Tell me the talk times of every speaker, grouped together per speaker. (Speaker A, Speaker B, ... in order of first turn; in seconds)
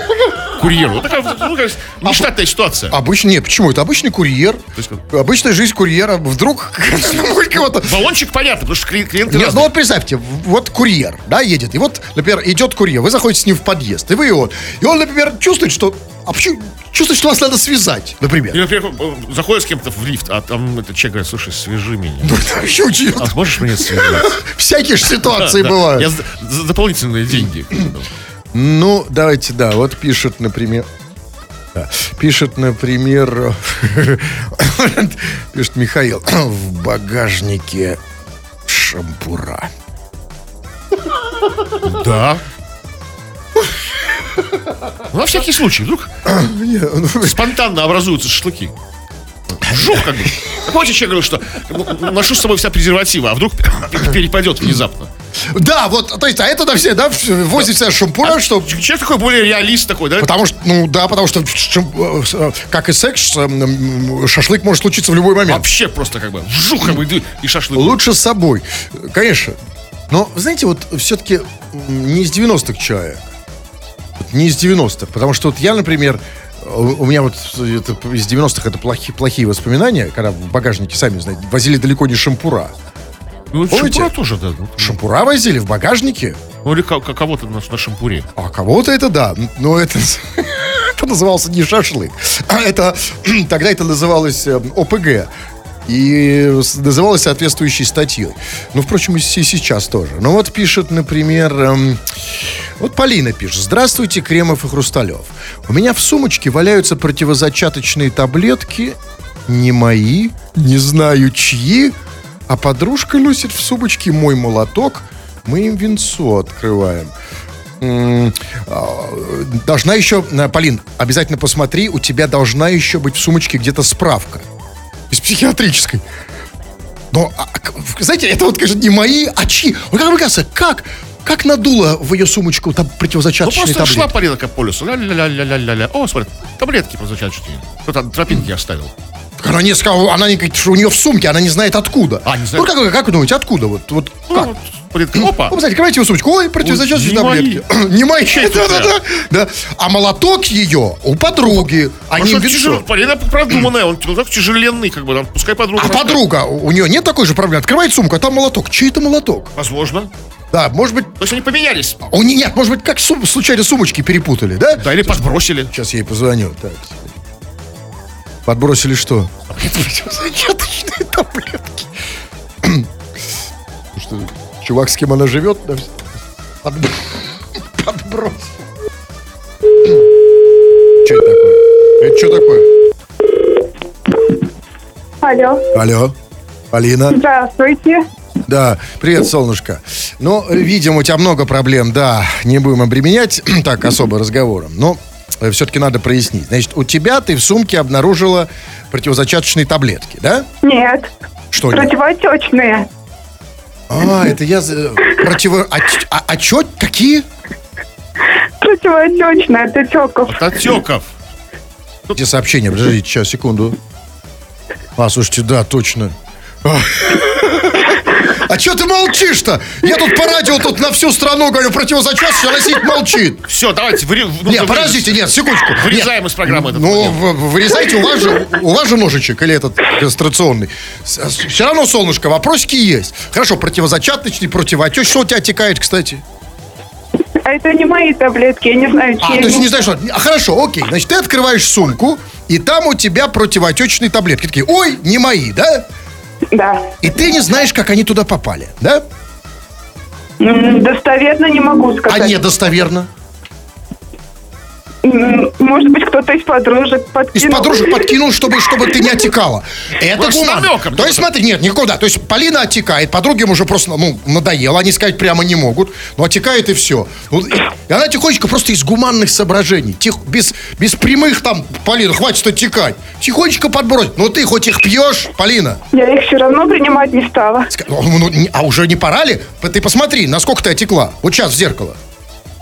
Speaker A: 0.5-3.0, 4.8-5.0, 7.7-9.7, 18.5-22.4, 23.1-24.4, 25.3-28.1, 41.8-42.4, 45.1-46.1, 47.2-48.7, 49.5-55.1, 58.2-60.3, 65.5-68.0, 83.5-85.0, 86.6-88.3, 133.4-138.9, 142.2-142.7, 144.3-145.6, 146.6-147.6, 148.3-149.0, 152.1-156.2, 159.6-160.1, 161.2-162.0, 164.8-165.7, 210.3-211.1, 223.5-227.3, 260.1-261.3
Speaker B: 2.0-2.3, 2.9-8.1, 9.3-18.6, 22.2-26.1, 28.5-30.9, 31.8-38.0, 38.6-39.7, 46.2-47.4, 55.5-58.8, 60.2-65.6, 67.8-69.6, 70.1-73.2, 74.2-82.7, 83.7-84.1, 84.8-86.4, 88.4-95.3, 95.9-102.0, 102.8-111.9, 112.5-117.1, 117.8-124.5, 125.1-126.0, 127.1-134.1, 139.4-144.5, 145.1-152.8, 155.8-159.5, 160.5-161.1, 162.0-167.1, 168.4-171.9, 172.6-172.9, 173.9-176.0, 176.6-178.5, 181.0-182.7, 185.8-186.1, 186.7-187.2, 188.5-200.5, 201.5-201.9, 203.9-207.3, 212.1-213.8, 214.9-223.4, 224.4-236.2, 239.2-245.9, 247.0-249.0, 252.1-253.1, 257.3-275.8, 277.7-282.0
Speaker C: 185.2-185.7, 187.1-188.1, 200.6-201.1, 201.7-202.9, 208.6-210.4, 237.4-239.7, 246.5-247.0, 250.4-252.4, 255.0-258.0, 275.9-277.7